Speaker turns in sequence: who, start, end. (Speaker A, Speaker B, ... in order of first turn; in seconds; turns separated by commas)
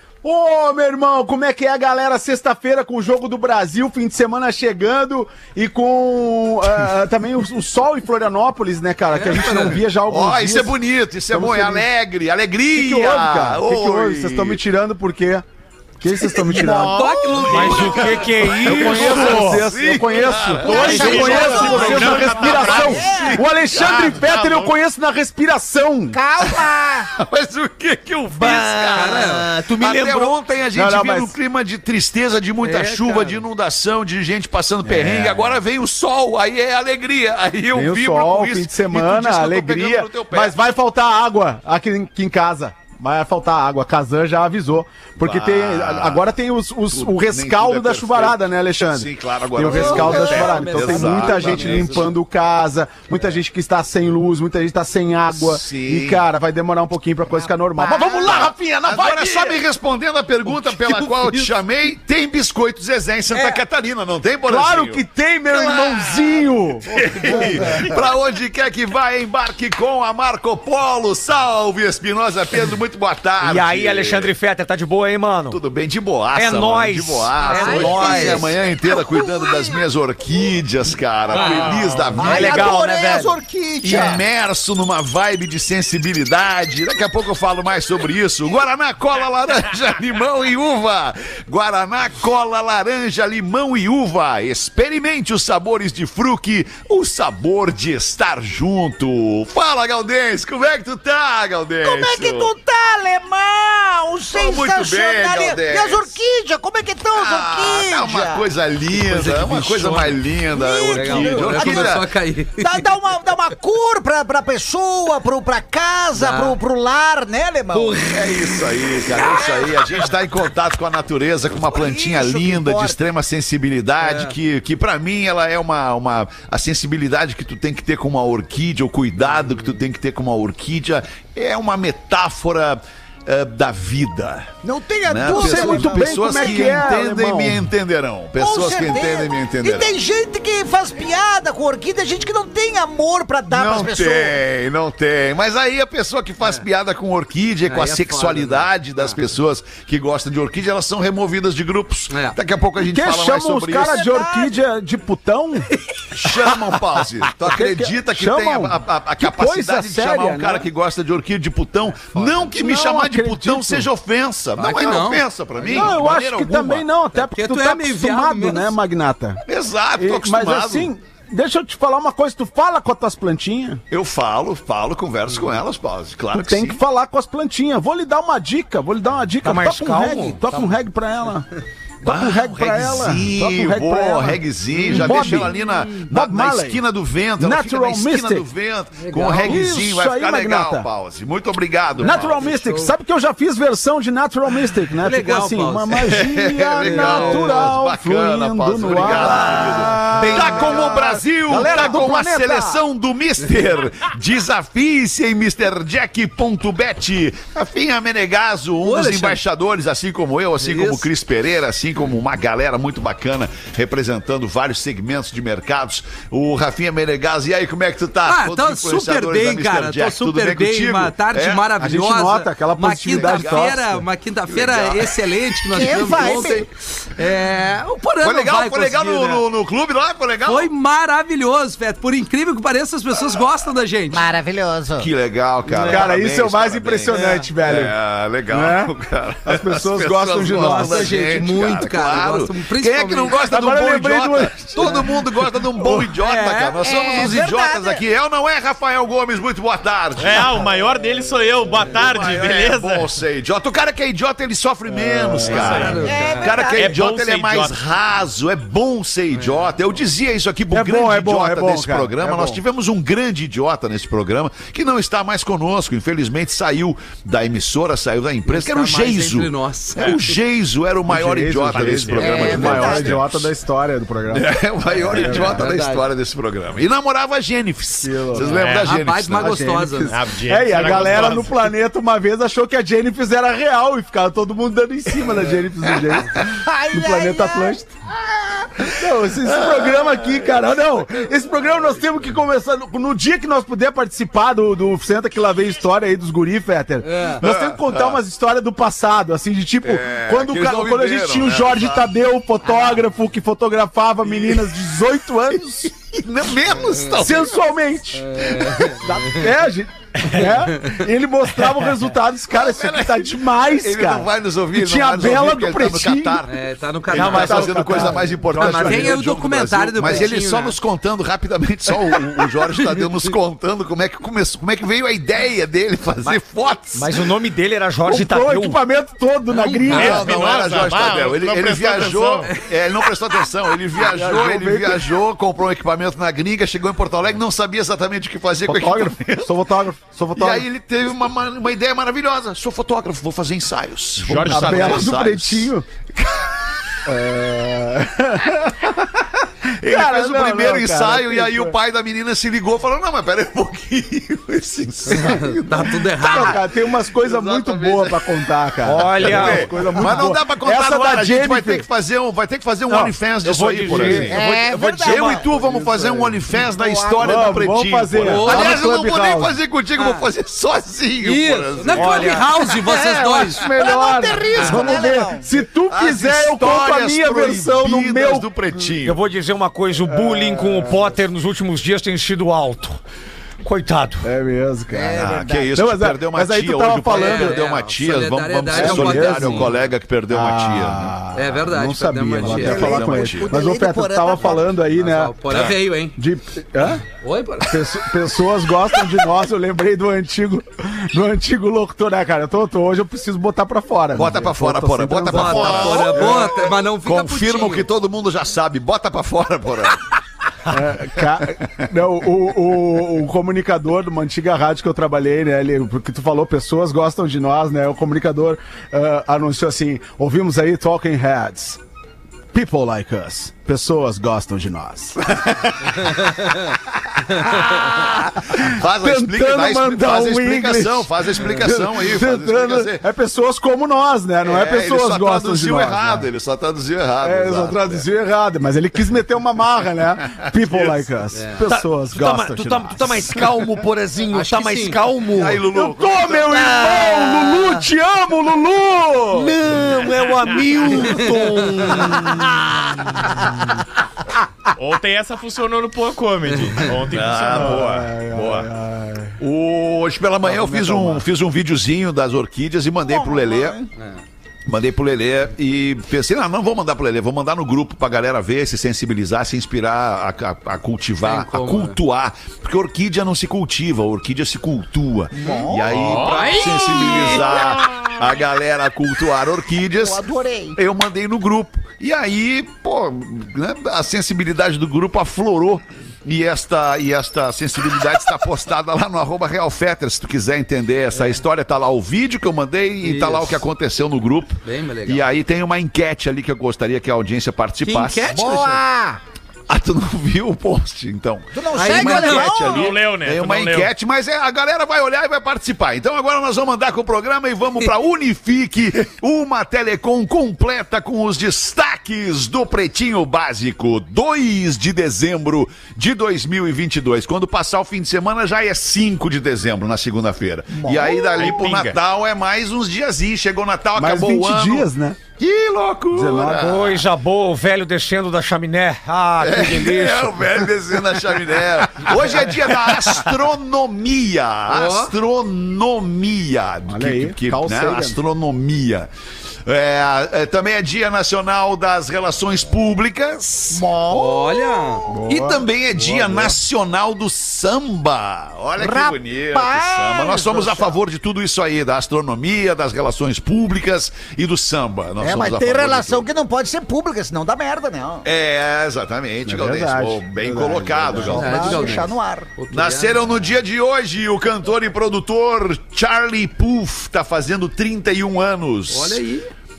Speaker A: 0.2-11.9, Speaker B: 9.4-9.8, Speaker C: 10.0-14.6, Speaker A: 12.7-15.4, Speaker A: 16.0-17.1, Speaker B: 16.5-19.0, Speaker D: 16.5-18.6, Speaker E: 17.3-19.7, Speaker C: 17.4-24.2, Speaker A: 18.6-26.2, Speaker D: 20.6-23.1, Speaker E: 20.7-22.1, Speaker F: 20.8-23.4, Speaker D: 23.7-24.7, Speaker F: 26.1-27.1, Speaker C: 26.4-26.7, Speaker C: 27.2-40.6, Speaker E: 28.3-30.3, Speaker B: 28.8-29.9, Speaker A: 30.7-31.4, Speaker B: 32.6-33.4, Speaker A: 34.8-35.6, Speaker A: 37.7-59.6, Speaker C: 45.2-46.3, Speaker C: 46.9-52.1, Speaker F: 49.7-50.5, Speaker B: 50.0-52.1, Speaker C: 55.3-56.2, Speaker F: 57.3-58.5, Speaker C: 58.2-65.0, Speaker B: 60.5-61.5, Speaker B: 63.3-63.6, Speaker A: 64.4-66.8, Speaker C: 65.5-66.0, Speaker C: 66.8-74.3, Speaker E: 73.4-75.6, Speaker C: 75.5-82.7, Speaker E: 76.3-78.5, Speaker F: 77.4-79.8, Speaker B: 77.5-78.4, Speaker D: 81.3-82.3, Speaker B: 81.4-81.7, Speaker F: 82.2-84.2, Speaker E: 82.2-83.3, Speaker C: 83.8-102.5, Speaker F: 101.8-112.0, Speaker C: 104.3-106.1, Speaker C: 107.1-112.1, Speaker B: 110.9-112.9, Speaker F: 112.6-118.0, Speaker B: 116.1-116.6, Speaker B: 117.7-118.4, Speaker C: 118.0-134.5, Speaker F: 121.6-123.0, Speaker B: 124.0-124.3, Speaker F: 134.6-136.9, Speaker C: 135.1-139.9, Speaker A: 135.2-137.7, Speaker F: 138.4-144.4, Speaker C: 143.5-154.0, Speaker B: 147.7-149.2, Speaker B: 152.1-152.4, Speaker A: 152.8-155.7, Speaker F: 153.8-154.6, Speaker B: 155.8-156.5, Speaker C: 156.2-166.9, Speaker A: 157.4-160.7, Speaker A: 162.1-163.9, Speaker B: 164.6-166.0, Speaker A: 165.7-169.4, Speaker B: 167.1-168.8, Speaker C: 169.5-170.9, Speaker A: 170.0-173.8, Speaker C: 173.9-176.8, Speaker A: 176.3-181.5, Speaker E: 179.4-180.7, Speaker A: 182.0-186.8, Speaker C: 182.0-192.5, Speaker B: 185.0-185.8, Speaker A: 187.4-188.5, Speaker B: 189.0-189.6, Speaker A: 189.4-190.9, Speaker B: 192.0-192.9, Speaker A: 192.0-202.8, Speaker B: 195.0-196.1, Speaker C: 196.0-221.7, Speaker B: 196.8-197.7, Speaker B: 198.9-200.2, Speaker E: 200.1-200.9, Speaker B: 208.8-209.4, Speaker B: 210.6-211.1, Speaker B: 218.2-229.5, Speaker A: 221.8-224.0, Speaker C: 223.1-226.4, Speaker F: 225.7-226.7, Speaker C: 228.2-230.7, Speaker B: 230.4-234.3, Speaker F: 234.1-235.1, Speaker C: 235.0-250.6, Speaker A: 235.7-238.0, Speaker A: 238.5-238.9, Speaker A: 239.4-241.2, Speaker B: 240.5-243.5, Speaker A: 243.4-246.1, Speaker B: 244.8-245.0, Speaker B: 246.1-246.8, Speaker F: 246.8-248.0, Speaker D: 250.2-253.2, Speaker C: 251.9-273.5, Speaker A: 254.9-255.9, Speaker B: 255.3-256.6, Speaker D: 255.4-256.1, Speaker F: 256.0-256.9, Speaker D: 256.7-257.8, Speaker A: 260.7-262.6, Speaker B: 268.4-270.2, Speaker A: 271.1-275.7, Speaker D: 271.7-272.7, Speaker F: 272.2-273.2, Speaker C: 274.3-279.6, Speaker B: 275.4-276.1, Speaker A: 278.0-278.7, Speaker D: 278.4-278.9, Speaker B: 278.6-280.2, Speaker A: 279.4-287.9, Speaker D: 280.1-281.5, Speaker C: 280.8-281.3, Speaker F: 286.5-287.8, Speaker C: 288.8-291.9, Speaker A: 288.9-305.9, Speaker B: 297.0-297.4, Speaker C: 297.4-298.2, Speaker C: 299.8-302.1, Speaker C: 304.3-304.6, Speaker C: 306.1-307.6, Speaker A: 307.1-316.4, Speaker B: 308.1-309.5, Speaker C: 312.5-327.2, Speaker B: 316.4-320.8, Speaker E: 317.1-319.1, Speaker A: 317.4-318.8, Speaker B: 322.9-323.2, Speaker E: 326.9-328.8, Speaker A: 328.0-330.4, Speaker B: 329.5-330.1, Speaker C: 329.8-339.5, Speaker D: 329.9-332.5, Speaker A: 333.9-335.1, Speaker A: 338.6-340.7, Speaker C: 340.3-346.5, Speaker D: 344.2-345.1, Speaker A: 344.5-345.9, Speaker A: 347.0-349.2, Speaker C: 349.8-356.5, Speaker A: 349.8-351.7, Speaker B: 355.1-356.6, Speaker A: 356.2-361.9, Speaker C: 357.1-358.4, Speaker E: 358.8-360.3, Speaker C: 359.2-372.5, Speaker E: 362.9-365.3, Speaker A: 363.9-364.4, Speaker F: 364.3-365.5, Speaker A: 365.4-366.6, Speaker F: 366.5-367.6, Speaker A: 367.1-369.6, Speaker B: 368.2-368.9, Speaker B: 369.9-370.3, Speaker B: 371.2-373.6, Speaker A: 372.9-378.5, Speaker F: 373.1-375.4, Speaker C: 374.6-379.2, Speaker E: 379.0-383.0, Speaker A: 380.0-381.2, Speaker E: 383.6-384.3, Speaker A: 384.2-387.6, Speaker F: 384.9-385.7, Speaker C: 385.1-391.2, Speaker B: 387.0-389.8, Speaker A: 388.7-389.7, Speaker A: 390.3-397.0, Speaker B: 391.3-393.0, Speaker F: 392.4-394.8, Speaker C: 392.5-393.5, Speaker B: 394.8-396.2, Speaker C: 395.5-395.8, Speaker B: 397.1-397.9, Speaker A: 397.6-406.5, Speaker C: 404.1-410.1, Speaker B: 405.2-407.9, Speaker A: 410.7-421.8, Speaker A: 422.5-425.4, Speaker C: 427.3-433.0, Speaker A: 428.5-436.3, Speaker C: 434.4-438.0, Speaker A: 437.2-443.4, Speaker C: 440.3-441.0, Speaker B: 441.3-441.6, Speaker E: 441.6-445.6, Speaker B: 444.3-445.1, Speaker C: 445.3-446.7, Speaker A: 445.7-449.6, Speaker E: 446.5-447.8, Speaker E: 449.3-452.6, Speaker D: 450.0-450.6, Speaker B: 450.8-451.9, Speaker C: 452.3-453.0, Speaker D: 454.7-457.9, Speaker C: 457.1-458.7, Speaker A: 457.5-459.4, Speaker C: 459.4-463.9, Speaker A: 460.4-461.3, Speaker F: 463.0-463.9, Speaker B: 464.0-464.2, Speaker C: 464.6-498.4, Speaker B: 471.2-472.0, Speaker F: 475.3-476.3, Speaker D: 475.9-476.6, Speaker B: 476.1-477.6, Speaker F: 477.2-477.7, Speaker F: 480.0-480.8, Speaker B: 491.1-491.4, Speaker B: 493.0-493.6, Speaker B: 494.6-495.3, Speaker B: 497.8-498.8, Speaker F: 498.3-499.2, Speaker C: 499.7-527.0, Speaker F: 501.5-502.9, Speaker B: 501.7-502.6, Speaker D: 502.5-503.9, Speaker F: 520.7-521.7, Speaker D: 521.4-522.0, Speaker A: 524.0-525.2, Speaker A: 526.1-526.9, Speaker E: 526.6-530.6, Speaker C: 529.4-539.1, Speaker B: 534.7-535.1, Speaker A: 536.9-538.2, Speaker C: 539.6-543.8, Speaker F: 543.7-545.0, Speaker B: 544.1-545.1, Speaker A: 545.1-546.6, Speaker C: 545.3-556.3, Speaker F: 548.8-551.0, Speaker F: 555.2-558.2, Speaker C: 558.2-562.0, Speaker A: 559.5-561.8, Speaker F: 561.1-562.5, Speaker B: 561.3-563.5, Speaker C: 562.7-569.2, Speaker B: 568.9-569.5